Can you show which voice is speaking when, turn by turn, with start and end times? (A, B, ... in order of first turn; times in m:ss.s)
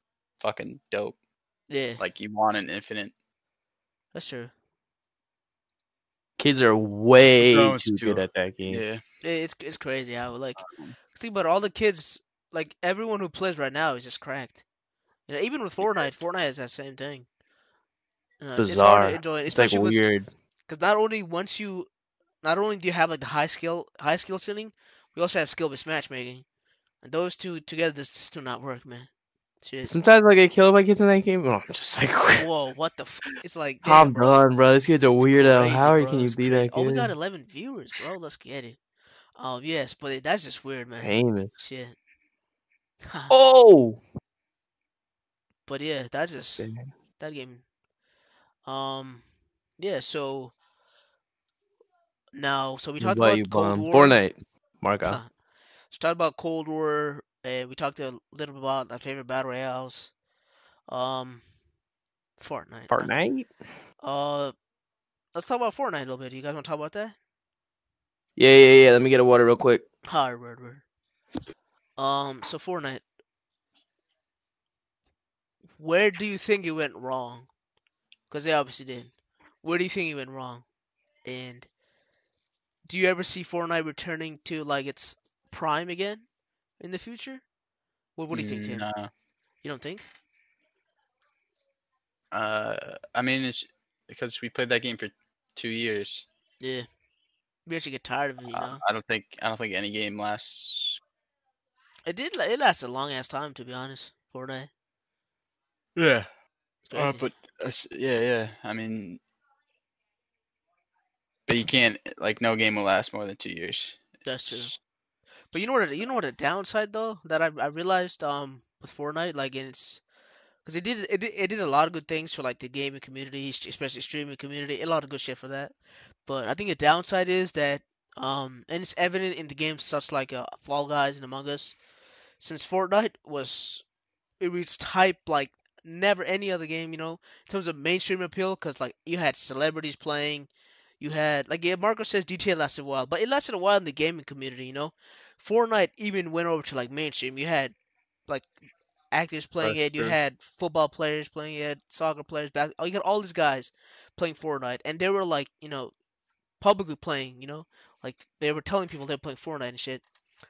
0:00.4-0:01.2 A
0:01.7-0:02.0 B
0:02.0-0:03.1 A
0:04.1-0:04.5 B
0:06.4-0:08.8 C
0:07.4-0:09.0 A
0:09.2-0:14.6 B
0:10.6-0:11.0 A
0:15.3-0:17.3 B
0:18.4-0:20.0 B
0:18.6-0:20.3 C
0:20.7-0:21.9 B
0:22.4-0:26.4 B
0:27.0-0:29.1 B
0:29.6-0:29.9 B
0:29.9-0:32.5 C
0:32.4-0:34.4 B
0:33.8-0:37.1 C
0:35.2-0:38.8 B
0:39.4-0:42.0 B
0:41.0-0:41.5 C
0:43.1-0:43.3 B
0:43.3-0:44.0 C
0:45.7-0:46.7 B
0:46.6-0:46.9 C
0:47.2-0:47.6 B
0:48.7-0:49.2 B
0:49.8-0:50.5 B
0:52.3-0:54.2 B
0:53.0-0:55.2 C
0:55.0-0:55.3 B
0:55.9-1:00.1 B
1:00.9-1:01.4 B
1:02.4-1:03.1 B
1:02.9-1:03.5 C
1:04.0-1:04.5 B
1:05.3-1:07.2 B
1:08.4-1:09.8 C
1:10.1-1:10.8 B
1:12.0-1:13.0 B
1:15.8-1:17.5 B
1:18.3-1:20.6 B
1:21.2-1:21.7 B
1:22.9-1:26.2 B
1:26.8-1:27.4 B
1:28.2-1:28.9 B
1:28.3-1:29.1 A
1:29.6-1:30.1 B
1:32.3-1:36.3 A
1:36.6-1:36.9 B
1:37.7-1:38.8 B
1:38.5-1:41.0 A
1:42.1-1:44.7 B
1:46.0-1:46.3 A
1:46.9-1:47.3 B
1:46.9-1:49.2 A
1:51.5-1:54.7 A
1:54.3-1:54.7 B
1:55.5-2:00.0 B
2:00.6-2:05.7 B
2:06.3-2:11.8 B
2:12.4-2:13.8 B
2:14.4-2:20.5 B
2:21.0-2:27.8 B
2:29.1-2:35.9 B
2:29.6-2:30.2 A
2:36.6-2:40.0 B